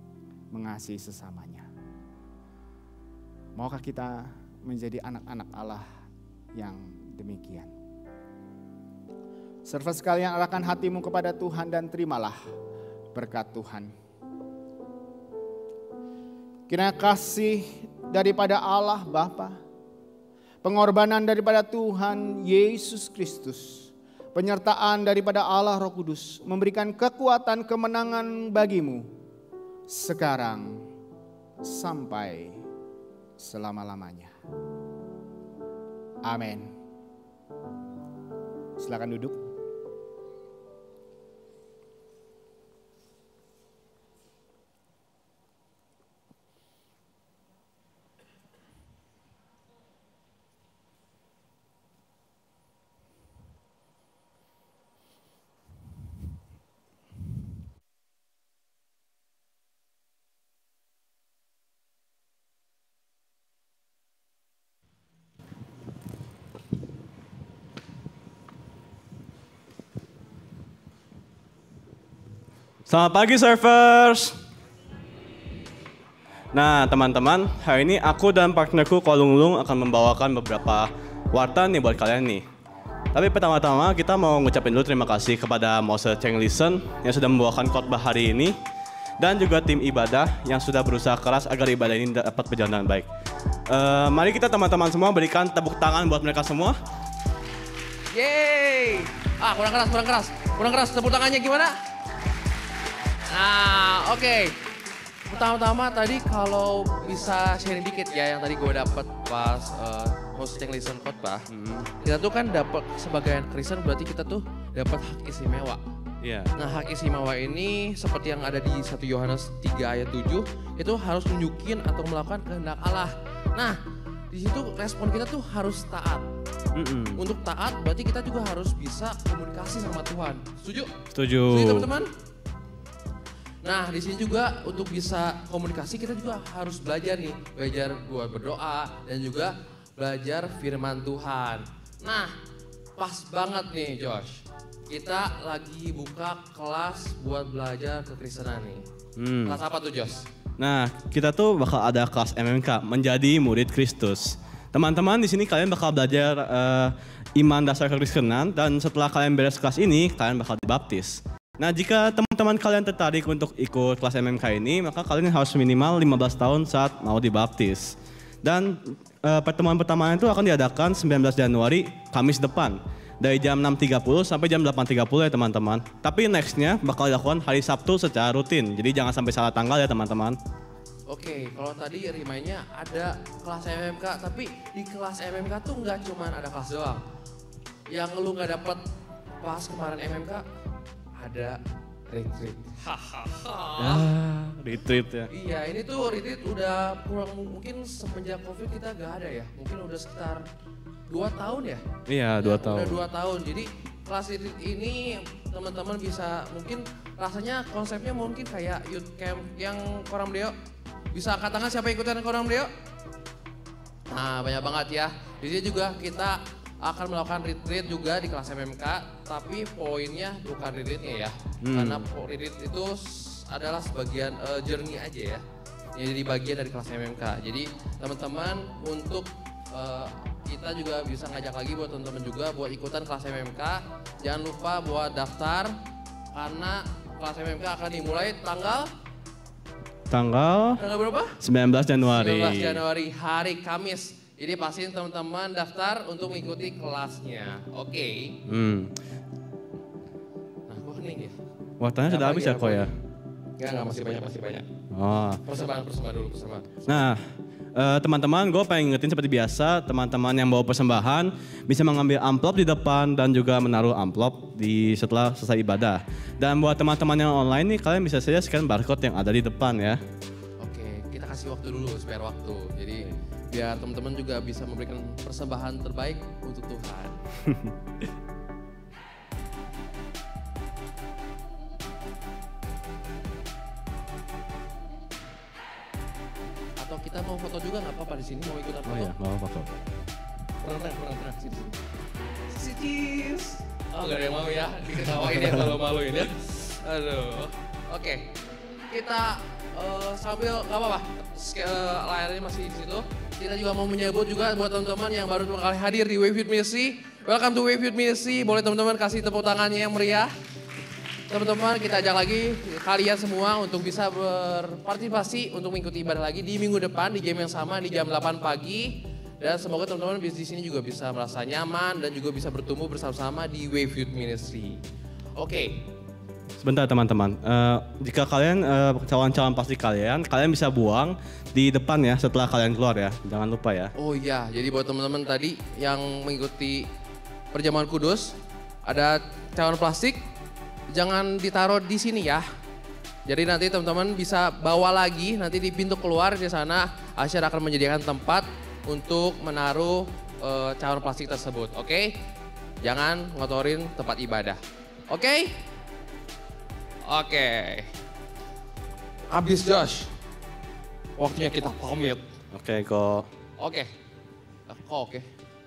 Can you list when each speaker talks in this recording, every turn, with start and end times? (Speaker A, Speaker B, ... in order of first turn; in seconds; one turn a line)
Speaker A: 0.5-1.7
Speaker A: 3.6-5.8
Speaker A: 6.6-7.7
Speaker A: 9.7-12.4
Speaker A: 13.1-13.9
Speaker A: 16.7-19.6
Speaker A: 20.6-29.1
Speaker A: 29.9-30.8
Speaker A: 31.6-32.6
Speaker A: 33.4-34.3
Speaker A: 36.2-36.7
Speaker A: 38.8-39.4
Speaker B: 72.9-74.3
Speaker B: 76.5-82.4
Speaker B: 83.1-88.6
Speaker B: 89.2-93.1
Speaker B: 93.7-96.8
Speaker C: 98.1-101.8
Speaker C: 103.3-104.5
Speaker C: 105.3-111.4
Speaker B: 111.5-111.9
Speaker C: 112.0-115.8
Speaker B: 116.2-116.5
Speaker C: 116.6-123.8
Speaker C: 124.3-126.3
Speaker B: 126.8-127.2
Speaker C: 127.2-130.9
Speaker B: 131.1-131.9
Speaker C: 131.4-132.1
Speaker C: 133.6-142.3
Speaker C: 143.0-148.8
Speaker B: 149.2-149.6
Speaker C: 149.5-150.3
Speaker B: 150.6-180.4
Speaker C: 181.1-187.0
Speaker C: 187.9-188.8
Speaker C: 189.4-190.4
Speaker C: 191.2-194.1
Speaker B: 193.8-195.3
Speaker C: 195.3-200.4
Speaker C: 201.1-201.8
Speaker B: 202.1-203.0
Speaker C: 202.4-210.5
Speaker C: 211.1-212.7
Speaker C: 214.1-225.4
Speaker B: 221.6-222.1
Speaker C: 225.9-235.8
Speaker C: 236.3-238.9
Speaker B: 240.1-240.8
Speaker C: 240.8-241.4
Speaker B: 241.4-242.8
Speaker C: 242.0-248.4
Speaker B: 248.5-248.9
Speaker C: 250.7-251.4
Speaker B: 251.8-252.9
Speaker C: 252.1-252.9
Speaker C: 253.6-254.7
Speaker B: 254.9-255.4
Speaker C: 255.4-256.8
Speaker B: 256.9-257.2
Speaker B: 257.8-270.0
Speaker C: 270.6-277.2
Speaker C: 286.8-289.1
Speaker B: 288.9-289.7
Speaker C: 290.6-291.8
Speaker C: 292.5-298.3
Speaker C: 298.9-310.3
Speaker C: 311.3-324.8
Speaker C: 325.4-325.8
Speaker B: 326.6-333.9
Speaker C: 334.0-336.9
Speaker C: 337.5-340.2
Speaker C: 340.9-342.5
Speaker C: 343.3-352.2
Speaker C: 352.8-355.6
Speaker C: 357.1-357.9
Speaker C: 359.3-360.1
Speaker C: 361.2-362.2
Speaker B: 362.5-363.3
Speaker C: 363.6-363.9
Speaker C: 364.7-365.3